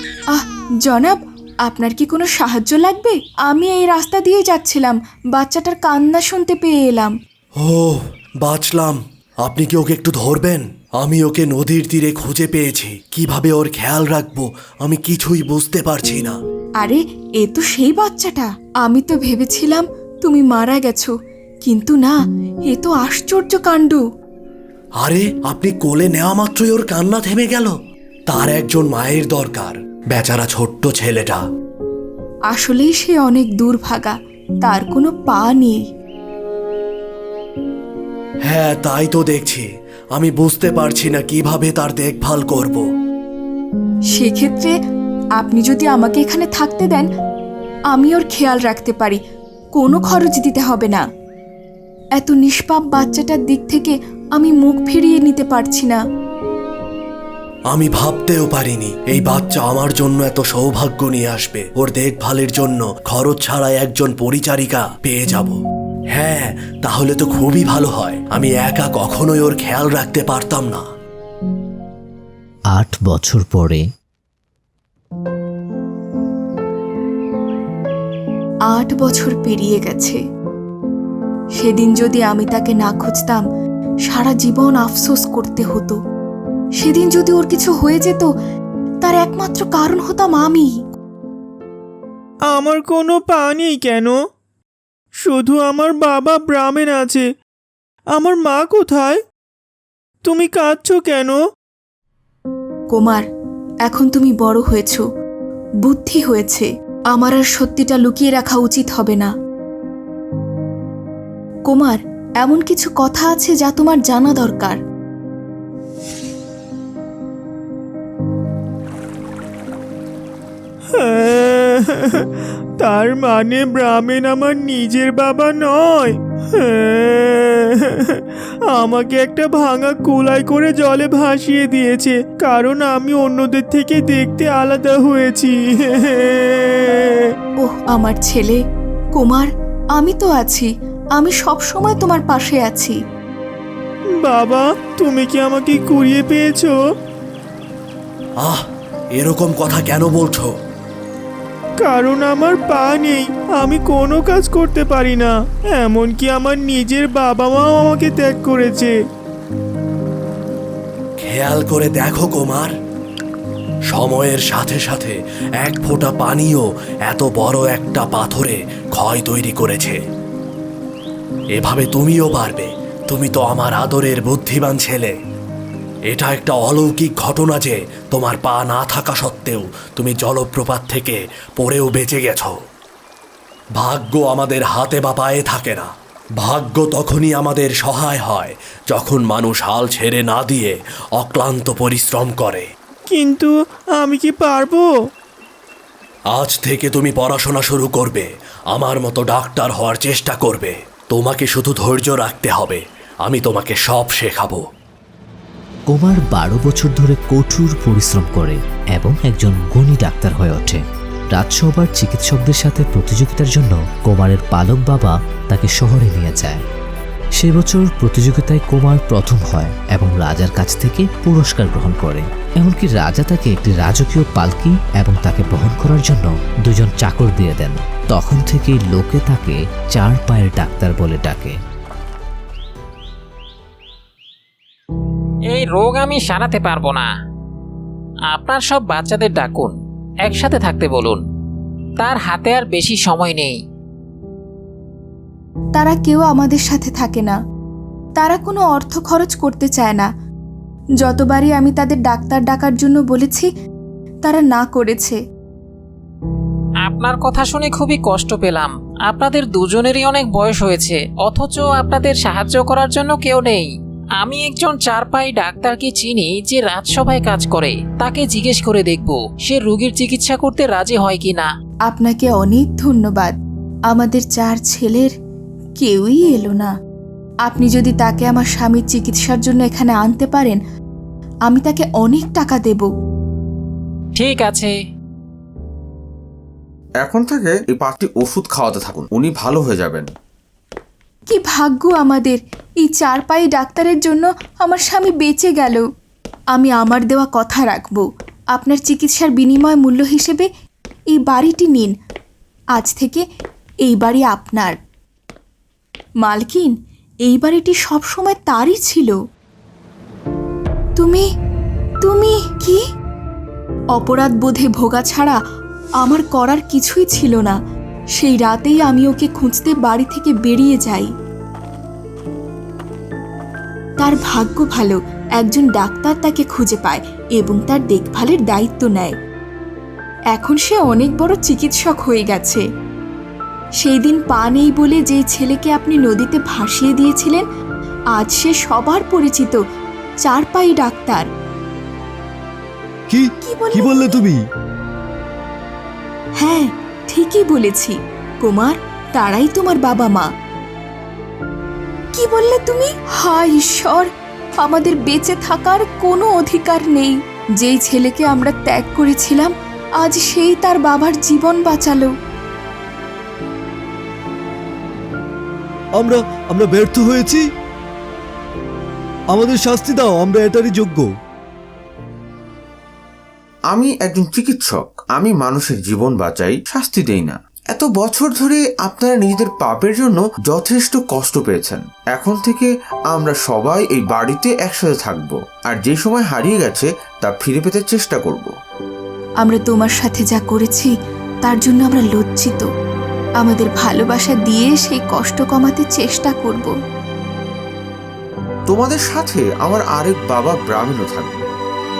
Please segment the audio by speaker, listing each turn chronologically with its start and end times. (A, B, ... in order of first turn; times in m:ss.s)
0:00.3-0:07.1 A
0:07.6-0:16.4 B
0:16.8-0:21.1 A
0:21.6-0:22.1 A
0:22.7-0:24.0 A
0:25.0-0:27.7 B
0:28.3-0:31.4 B
0:32.5-0:35.8 A
0:38.4-0:42.8 B
0:44.1-0:44.7 A
0:45.4-0:47.0 A
0:47.9-0:49.2 A
0:49.8-0:51.0 A
0:52.2-0:56.0 A
0:57.7-1:05.6 B
1:06.1-1:10.8 B
1:12.7-1:13.8 C
1:18.7-1:20.2 A
1:21.6-1:23.4 A
1:24.1-1:26.0 A
1:26.8-1:28.3 A
1:29.0-1:30.7 A
1:32.5-1:34.2 D
1:35.2-1:37.3 D
1:38.1-1:39.2 D
1:40.2-1:41.4 D
1:42.9-1:43.2 A
1:43.9-1:45.0 A
1:45.8-1:49.3 A
1:51.7-1:54.8 A
2:00.9-2:17.3 D
2:17.6-2:18.6 A
2:19.2-2:23.0 A
2:24.2-2:26.8 D
2:29.2-2:30.5 B
2:31.8-2:39.0 D
2:41.2-2:42.7 B
2:43.9-2:50.0 B
2:51.6-2:55.1 B
2:56.1-3:02.5 B
3:03.8-3:12.6 B
3:13.1-3:14.9 D
3:16.3-3:24.6 B
3:25.9-3:30.8 C
3:31.3-3:36.6 C
3:37.4-3:51.5 C
3:55.5-3:57.1 E
3:58.3-4:01.2 E
4:02.0-4:03.5 E
4:05.7-4:07.4 A
4:08.2-4:10.1 A
4:11.0-4:13.5 A
4:14.2-4:15.2 A
4:16.8-4:31.5 E
4:31.9-4:33.3 A
4:33.9-4:35.1 A
4:35.8-4:36.7 A
4:37.5-4:40.6 A
4:41.5-4:42.9 A
4:44.2-4:44.7 E
4:47.0-4:50.0 F
4:51.3-4:55.8 A
4:56.5-4:58.0 A
4:58.5-5:00.5 A
5:01.1-5:01.9 A
5:02.8-5:03.2 A
5:03.8-5:04.8 A
5:06.2-5:06.7 A
5:07.3-5:09.1 A
5:11.0-5:11.2 A
5:12.0-5:12.8 A
5:13.9-5:15.4 A
5:16.0-5:17.6 A
5:18.2-5:21.1 A
5:24.0-5:29.1 A
5:30.3-5:32.6 A
5:33.8-5:37.4 A
5:38.1-5:39.6 A
5:40.2-5:41.2 A
5:43.1-5:44.4 G
5:43.4-5:44.2 A
5:46.4-5:50.3 A
5:52.1-5:54.1 A
5:54.6-6:02.1 A
6:06.0-6:07.4 G
6:09.3-6:11.1 G
6:13.7-6:28.5 F
6:29.4-6:30.9 A
6:31.4-6:32.7 A
6:33.4-6:36.7 A
6:38.7-6:41.5 F